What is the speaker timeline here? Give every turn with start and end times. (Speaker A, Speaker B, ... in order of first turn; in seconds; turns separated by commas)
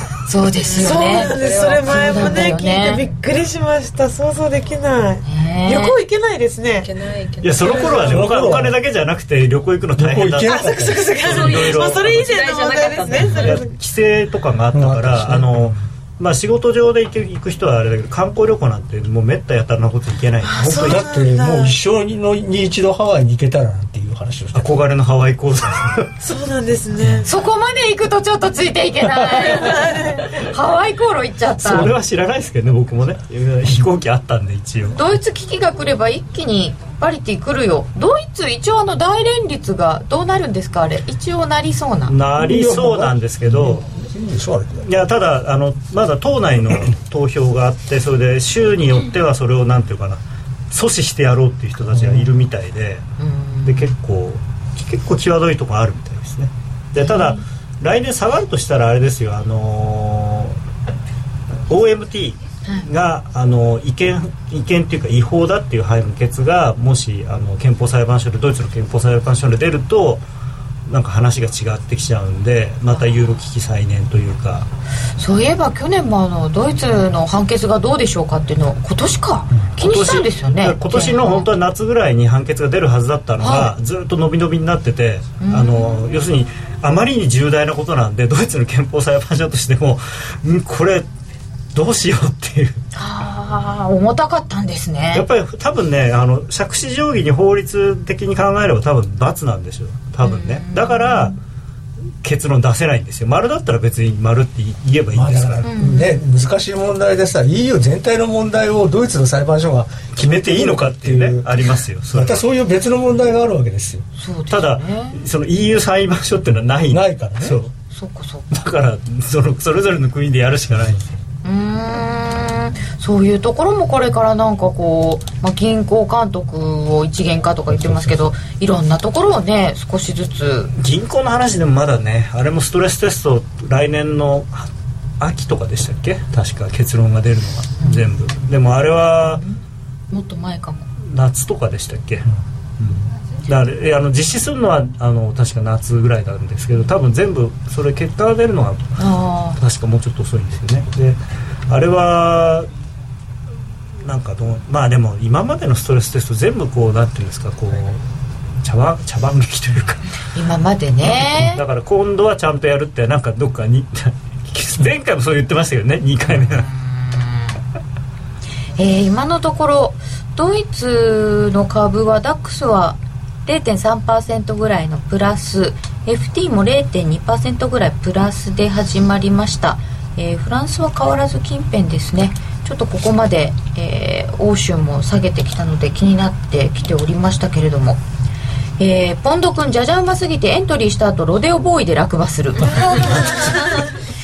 Speaker A: 0.3-3.1, Speaker B: 0.7-2.5, Speaker C: 0.7-6.9, Speaker A: 5.2-6.0, Speaker B: 6.8-8.3, Speaker D: 7.4-12.3, Speaker C: 7.6-8.2, Speaker E: 8.0-8.8, Speaker E: 10.0-11.2, Speaker C: 10.4-13.8, Speaker B: 11.2-13.5, Speaker D: 13.2-21.1, Speaker E: 14.7-15.8, Speaker C: 20.4-21.8, Speaker E: 20.8-24.8, Speaker D: 24.5-26.1, Speaker C: 26.2-27.3, Speaker A: 27.2-31.9, Speaker C: 29.4-30.4, Speaker D: 31.6-35.0, Speaker A: 34.9-42.1, Speaker D: 42.1-43.8, Speaker E: 42.4-44.9, Speaker D: 44.8-53.1, Speaker E: 51.9-52.3, Speaker A: 53.2-53.9, Speaker D: 53.6-60.6, Speaker A: 57.0-57.4, Speaker D: 61.7-70.2, Speaker D: 70.9-74.7, Speaker A: 75.2-81.5, Speaker D: 79.6-91.1, Speaker A: 83.4-83.7, Speaker A: 85.4-86.1, Speaker D: 91.7-92.8, Speaker A: 92.9-95.3, Speaker D: 95.1-101.3, Speaker A: 100.2-101.4, Speaker D: 102.2-105.7, Speaker E: 105.2-111.5, Speaker A: 105.7-106.2, Speaker D: 110.2-112.5, Speaker E: 112.1-114.0, Speaker A: 114.2-115.2, Speaker D: 114.5-117.7, Speaker E: 116.9-117.6, Speaker A: 117.9-118.5, Speaker D: 118.5-121.2, Speaker A: 121.4-130.7, Speaker E: 127.7-128.3, Speaker D: 130.8-139.4, Speaker A: 137.8-138.1, Speaker A: 139.3-139.6, Speaker A: 140.1-140.8, Speaker D: 141.1-142.3, Speaker D: 142.8-149.0, Speaker A: 149.0-149.6, Speaker D: 149.6-152.7, Speaker D: 154.0-158.0, Speaker D: 158.6-160.1, Speaker A: 160.3-161.6, Speaker D: 161.0-166.7, Speaker A: 166.4-167.5, Speaker A: 168.8-188.0, Speaker A: 188.8-193.9